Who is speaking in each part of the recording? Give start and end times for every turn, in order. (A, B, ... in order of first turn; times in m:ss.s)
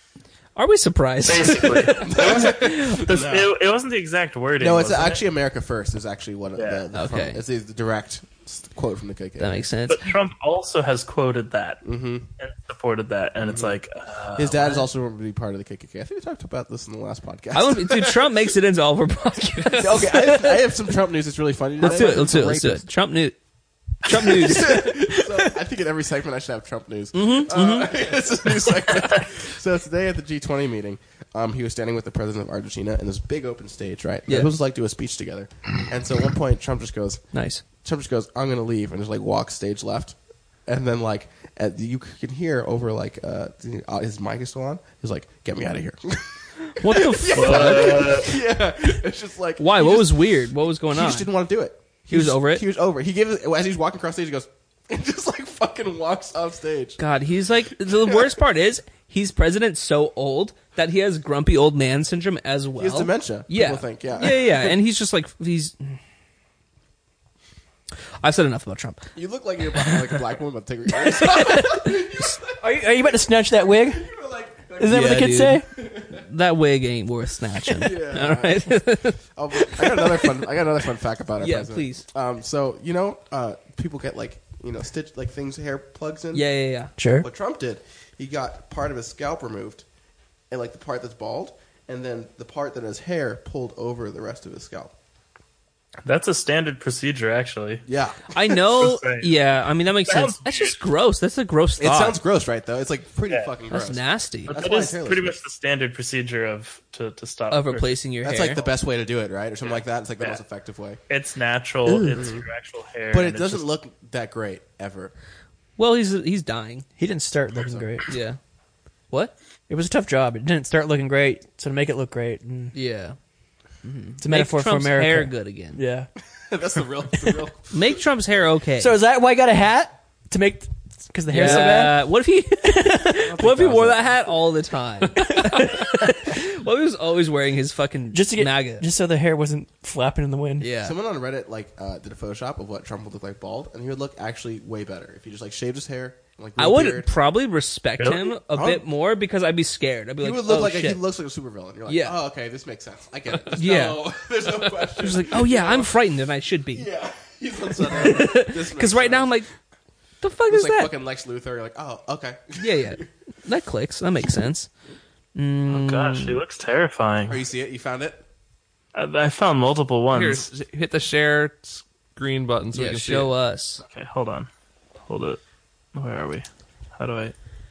0:00.6-0:03.0 A
0:01.2-0:05.2 B
0:02.0-0:03.5 C
0:04.6-0:09.7 C
0:06.6-0:06.8 B
0:06.9-0:07.4 A
0:09.4-0:10.1 A
0:09.9-0:11.8 B
0:11.8-0:12.2 C
0:12.4-0:14.8 B
0:13.4-0:13.8 C
0:14.4-0:18.4 C
0:17.5-0:20.7 A
0:19.7-0:22.8 C
0:21.8-0:23.4 A
0:24.0-0:24.9 A
0:24.1-0:37.2 C
0:27.1-0:27.9 A
0:37.3-0:37.6 A
0:37.8-0:57.0 C
0:46.8-0:48.1 A
0:47.3-0:48.4 B
0:49.6-0:51.3 A
0:52.1-0:52.6 A
0:57.0-1:06.0 A
0:57.8-0:58.4 C
1:02.8-1:04.8 C
1:08.2-1:09.1 A
1:09.1-1:16.2 C
1:09.8-1:10.2 A
1:10.9-1:12.3 A
1:12.6-1:14.1 D
1:14.8-1:15.7 D
1:14.9-1:20.4 A
1:17.6-1:26.4 C
1:21.4-1:22.0 A
1:26.3-1:26.9 A
1:27.0-1:27.3 D
1:27.2-1:29.8 C
1:30.5-1:34.9 C
1:36.0-1:37.8 B
1:37.8-1:38.6 C
1:38.3-1:42.2 A
1:38.8-1:39.4 B
1:40.0-1:40.8 B
1:41.8-1:45.4 C
1:43.7-1:44.6 A
1:44.5-1:48.0 B
1:47.5-1:48.6 A
1:48.2-1:51.0 C
1:49.6-1:50.4 B
1:51.1-1:53.7 B
1:52.0-1:52.4 C
1:53.1-1:55.1 C
1:55.8-1:56.8 A
1:57.0-1:58.1 D
1:57.5-1:57.8 C
1:58.1-1:58.4 A
1:59.7-2:02.7 D
2:02.7-2:03.2 A
2:03.8-2:05.8 A
2:04.2-2:06.1 D
2:06.3-2:08.0 C
2:07.7-2:09.0 A
2:08.8-2:12.0 D
2:11.3-2:18.8 A
2:13.2-2:14.2 C
2:15.4-2:16.2 D
2:18.1-2:20.7 D
2:20.6-2:21.0 A
2:20.8-2:27.1 C
2:26.6-2:31.0 A
2:28.0-2:28.4 B
2:28.5-2:28.8 C
2:30.2-2:35.9 C
2:31.9-2:32.2 A
2:33.5-2:34.0 A
2:35.0-2:36.9 A
2:36.7-2:39.3 C
2:37.8-2:39.5 A
2:40.2-2:40.9 A
2:40.4-2:43.1 C
2:42.6-2:44.7 A
2:45.3-2:46.4 A
2:45.7-2:47.4 B
2:47.2-2:48.2 C
2:48.9-2:50.5 B
2:50.1-2:53.3 E
2:52.7-2:53.8 A
2:53.8-2:54.5 B
2:55.1-2:55.4 B
2:55.9-2:57.3 B